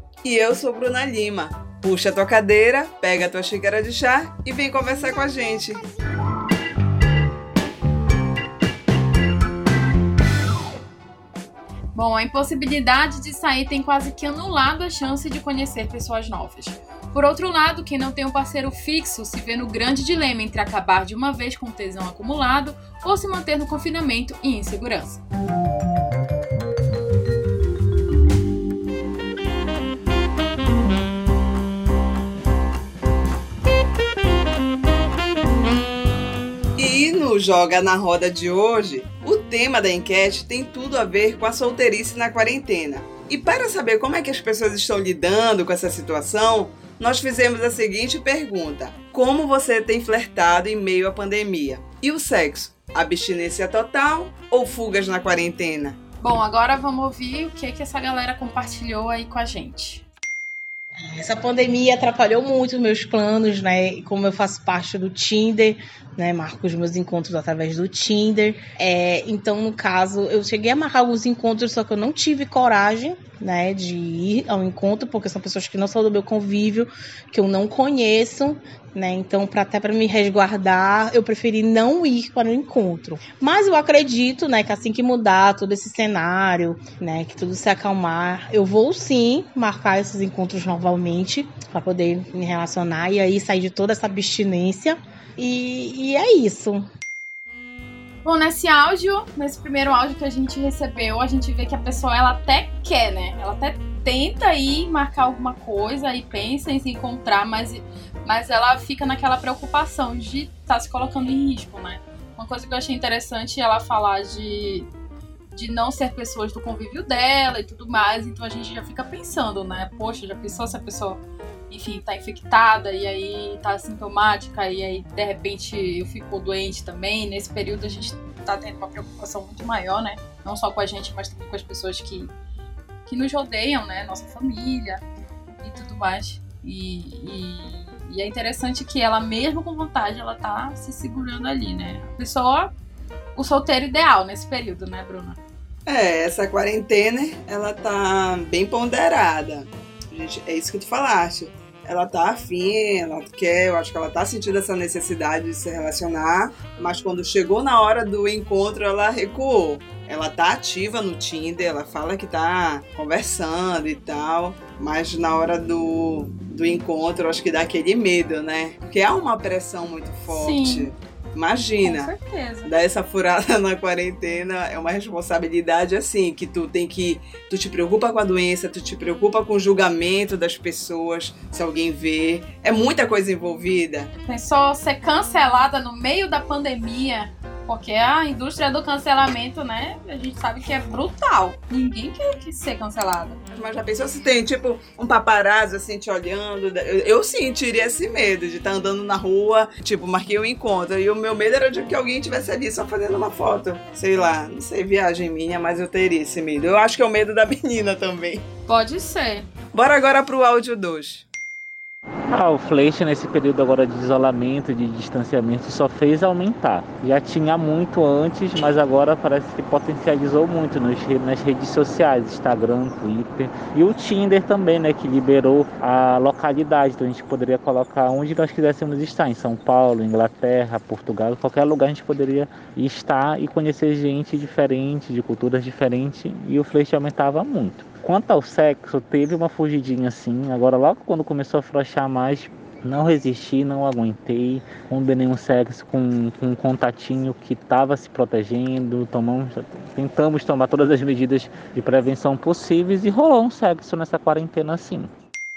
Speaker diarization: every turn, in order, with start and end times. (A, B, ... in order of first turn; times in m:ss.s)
0:00.2-0:05.9 A
0:12.0-0:25.2 B
0:36.8-0:56.0 A
0:56.2-1:00.0 B
1:01.0-1:36.9 C
1:38.2-1:54.9 B
1:55.5-2:12.3 B
2:13.1-2:15.0 B
2:15.6-2:22.7 B
2:23.4-2:25.4 B
2:25.9-2:52.1 A
2:50.3-2:50.9 B
2:51.8-2:52.7 B
2:52.7-3:04.1 A
3:04.2-3:13.4 B
3:13.5-3:28.4 A
3:28.7-3:29.5 B
3:29.7-3:31.3 A
3:32.3-4:15.1 D